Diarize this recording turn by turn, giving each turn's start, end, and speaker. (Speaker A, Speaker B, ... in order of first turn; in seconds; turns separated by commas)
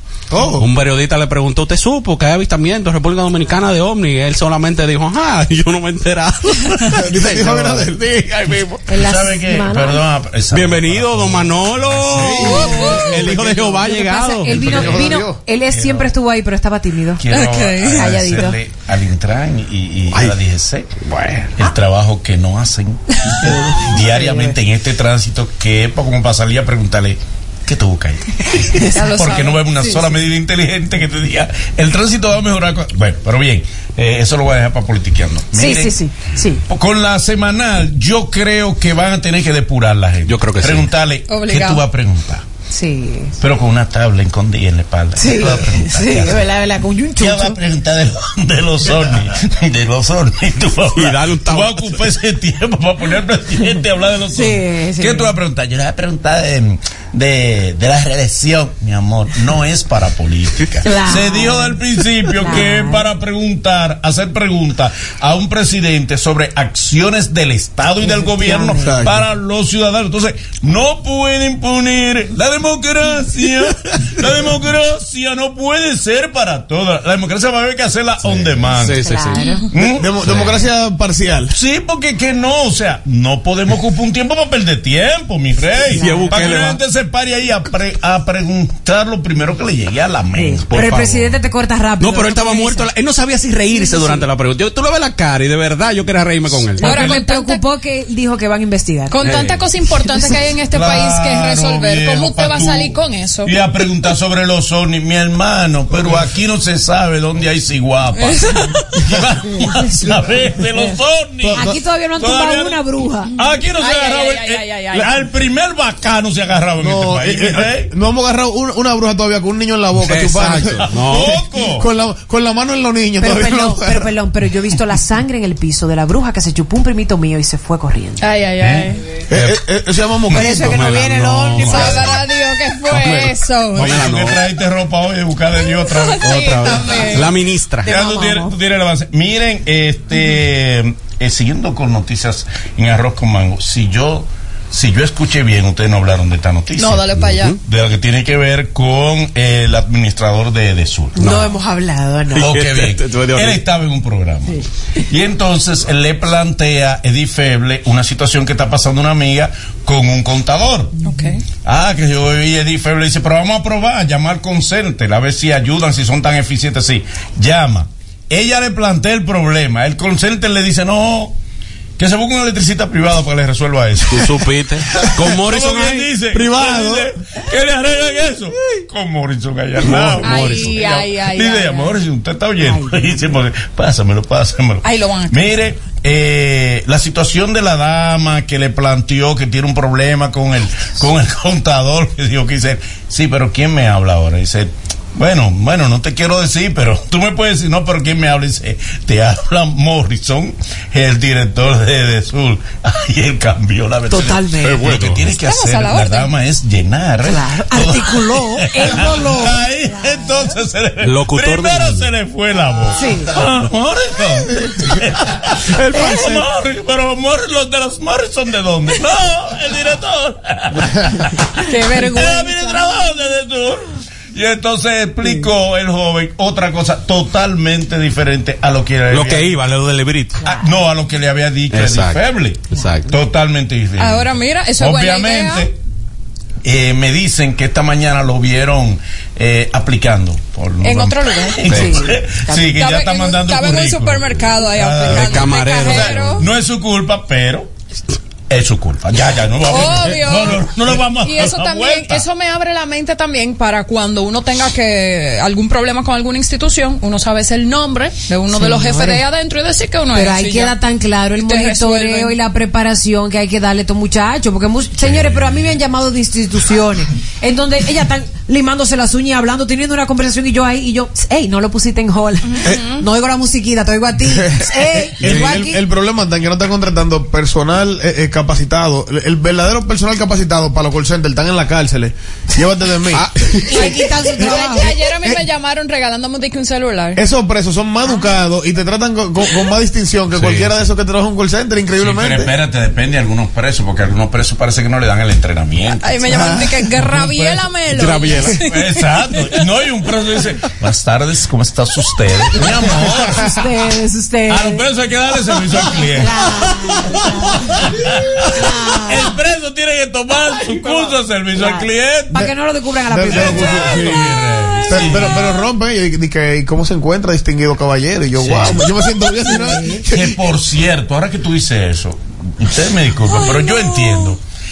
Speaker A: 0.3-0.7, Speaker B: 0.6-8.8, Speaker A: 6.8-8.2, Speaker C: 8.9-10.0, Speaker D: 8.9-12.4, Speaker B: 10.5-15.1, Speaker A: 12.1-13.9, Speaker E: 12.4-13.1, Speaker C: 12.4-17.2, Speaker A: 14.5-15.4, Speaker D: 17.2-20.9, Speaker E: 17.3-18.1, Speaker C: 17.9-18.6, Speaker B: 21.0-21.5, Speaker D: 21.6-36.0, Speaker A: 23.4-24.5, Speaker C: 23.4-23.8, Speaker C: 28.6-29.1, Speaker E: 28.9-29.6, Speaker C: 29.8-30.1, Speaker C: 35.5-36.6, Speaker D: 36.7-42.4, Speaker B: 40.3-40.9, Speaker E: 41.3-41.8, Speaker C: 42.7-43.4, Speaker D: 43.4-46.5, Speaker C: 45.2-47.6, Speaker D: 47.1-79.0, Speaker B: 50.9-52.0, Speaker C: 54.3-55.4, Speaker C: 60.8-63.1, Speaker C: 68.0-69.1, Speaker A: 68.8-69.2, Speaker B: 78.7-79.4, Speaker C: 78.8-79.7, Speaker E: 79.4-79.6, Speaker D: 79.7-80.1, Speaker A: 79.8-81.5, Speaker B: 80.2-80.5, Speaker D: 81.5-90.9, Speaker C: 85.9-86.5, Speaker B: 85.9-86.8, Speaker C: 90.3-92.9, Speaker B: 90.7-91.4, Speaker B: 92.0-97.2, Speaker C: 93.7-94.2, Speaker C: 96.5-99.2, Speaker E: 96.8-97.6, Speaker E: 99.1-103.5, Speaker B: 99.2-99.6, Speaker C: 100.1-100.5, Speaker D: 100.7-112.8, Speaker E: 108.2-109.0, Speaker C: 109.6-110.2, Speaker A: 111.4-111.8, Speaker C: 111.5-113.3, Speaker D: 113.3-117.9, Speaker E: 113.8-115.2, Speaker A: 116.8-124.1, Speaker B: 120.0-121.4, Speaker D: 120.9-121.9, Speaker C: 123.2-128.3, Speaker E: 128.2-129.0, Speaker D: 128.6-128.9, Speaker A: 129.3-130.8, Speaker B: 129.3-129.6, Speaker C: 130.3-132.1, Speaker B: 130.3-132.2, Speaker E: 131.6-133.9, Speaker B: 132.9-134.4, Speaker D: 133.8-136.8, Speaker E: 135.7-137.3, Speaker B: 136.2-137.9, Speaker C: 137.8-138.6, Speaker D: 137.8-147.0, Speaker E: 146.8-147.6, Speaker B: 147.2-147.5, Speaker D: 147.6-151.5, Speaker C: 151.2-152.5, Speaker B: 152.3-153.6, Speaker D: 152.4-160.9, Speaker C: 161.0-161.3, Speaker E: 161.0-161.4, Speaker D: 161.7-171.3, Speaker D: 172.0-174.5, Speaker B: 174.1-176.1, Speaker D: 175.0-229.5, Speaker A: 176.3-177.1, Speaker B: 179.8-180.9, Speaker E: 180.2-181.9, Speaker C: 182.6-183.0, Speaker E: 184.8-185.4, Speaker C: 204.1-204.9, Speaker B: 204.6-205.2, Speaker E: 205.3-206.3, Speaker C: 207.2-210.5, Speaker B: 211.0-212.1, Speaker C: 212.9-213.3, Speaker C: 215.9-216.4, Speaker E: 221.7-222.5, Speaker C: 222.4-222.8, Speaker B: 229.1-230.4, Speaker C: 230.4-230.8, Speaker D: 230.4-235.8, Speaker B: 231.7-233.1, Speaker E: 234.0-235.7, Speaker D: 236.6-247.7, Speaker E: 240.8-241.7, Speaker C: 241.6-242.7, Speaker B: 241.7-242.0, Speaker E: 242.7-246.4, Speaker B: 245.1-246.5, Speaker D: 248.5-252.2, Speaker E: 249.7-250.6, Speaker E: 251.2-260.8, Speaker C: 258.5-259.2, Speaker C: 260.1-275.8, Speaker E: 261.4-262.3, Speaker D: 265.2-265.6, Speaker E: 272.5-273.0, Speaker A: 274.3-283.7, Speaker B: 275.2-275.6, Speaker B: 283.1-283.9, Speaker C: 283.7-284.9, Speaker E: 283.7-287.2, Speaker A: 284.4-284.7, Speaker A: 287.1-292.5, Speaker D: 292.0-297.6, Speaker E: 296.0-299.5, Speaker B: 297.9-298.6, Speaker D: 298.5-303.7, Speaker C: 303.3-304.9, Speaker D: 304.5-312.5, Speaker C: 305.4-309.4, Speaker C: 310.7-315.4, Speaker A: 313.1-314.3, Speaker D: 313.2-315.6, Speaker A: 314.9-320.4, Speaker D: 318.4-318.8, Speaker C: 319.5-320.0, Speaker D: 320.1-324.4, Speaker C: 323.2-324.3